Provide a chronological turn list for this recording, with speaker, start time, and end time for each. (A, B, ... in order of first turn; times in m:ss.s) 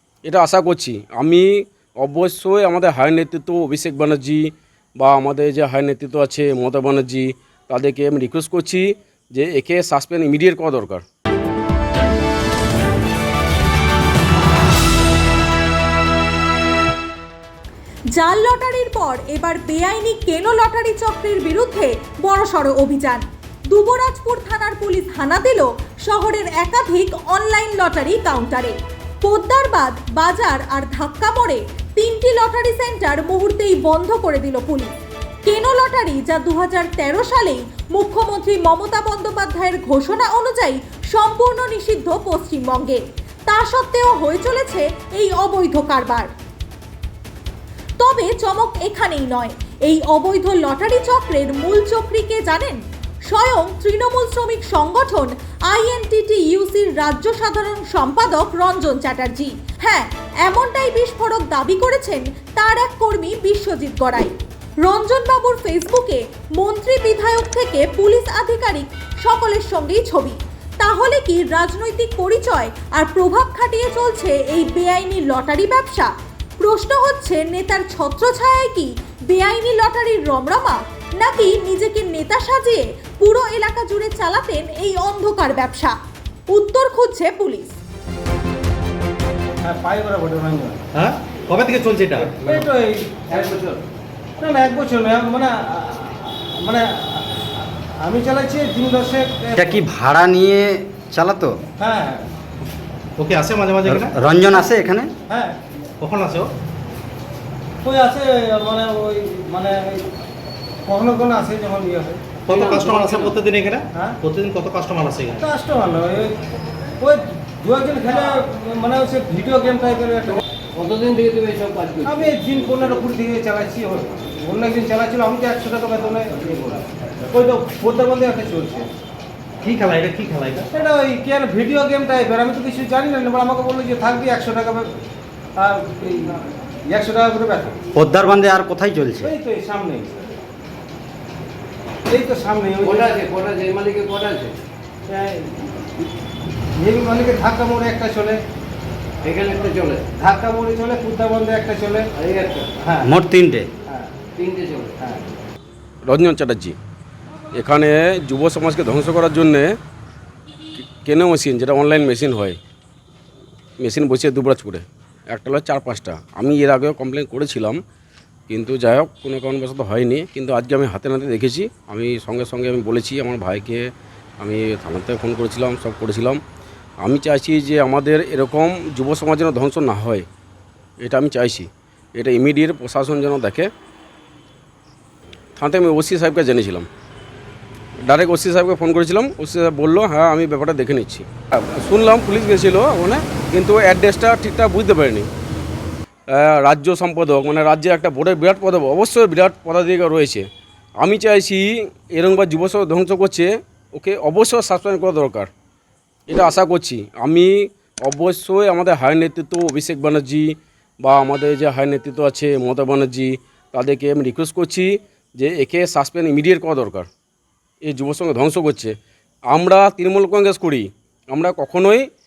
0:00.2-0:11.0 A
0:18.1-0:34.9 B
0:35.5-0:46.3 B
0:48.0-1:26.0 B
1:26.5-1:27.8 B
1:29.6-1:30.8 C
1:30.9-1:32.4 D
1:32.2-1:33.6 C
1:33.4-1:33.8 E
1:34.4-1:39.8 C
1:39.6-1:41.6 F
1:41.8-1:42.3 C
1:43.2-1:44.2 D
1:43.9-1:45.1 F
1:45.3-1:45.6 C
1:46.0-1:46.5 D
1:47.8-1:50.1 C
1:50.9-1:52.4 C
1:52.5-1:55.4 D
1:52.5-1:53.4 E
1:55.4-1:56.4 C
1:57.0-2:00.4 C
2:00.8-2:03.0 E
2:02.0-2:06.5 C
2:06.5-2:06.9 E
2:07.3-2:08.9 C
2:09.6-2:10.7 D
2:10.7-2:15.0 C
2:15.6-2:17.8 C
2:18.0-2:19.3 F
2:19.2-2:20.2 C
2:22.1-2:23.2 C
2:22.8-2:24.6 E
2:25.1-2:25.7 C
2:26.8-2:28.4 C
2:29.2-2:30.1 E
2:30.1-2:32.1 C
2:32.1-2:32.8 E
2:32.8-2:33.1 C
2:33.0-2:33.7 F
2:34.3-2:35.2 E
2:36.1-2:36.8 A
2:37.5-2:39.8 A
2:40.8-2:42.6 A
2:43.8-2:47.8 A
2:48.5-2:56.4 A
2:57.0-3:00.2 A
3:01.0-3:03.7 A
3:05.6-3:06.9 A
3:08.1-3:15.3 A
3:16.3-3:20.5 A
3:21.0-3:25.5 A
3:26.3-3:37.1 A
3:37.8-3:38.9 A
3:39.5-3:42.1 A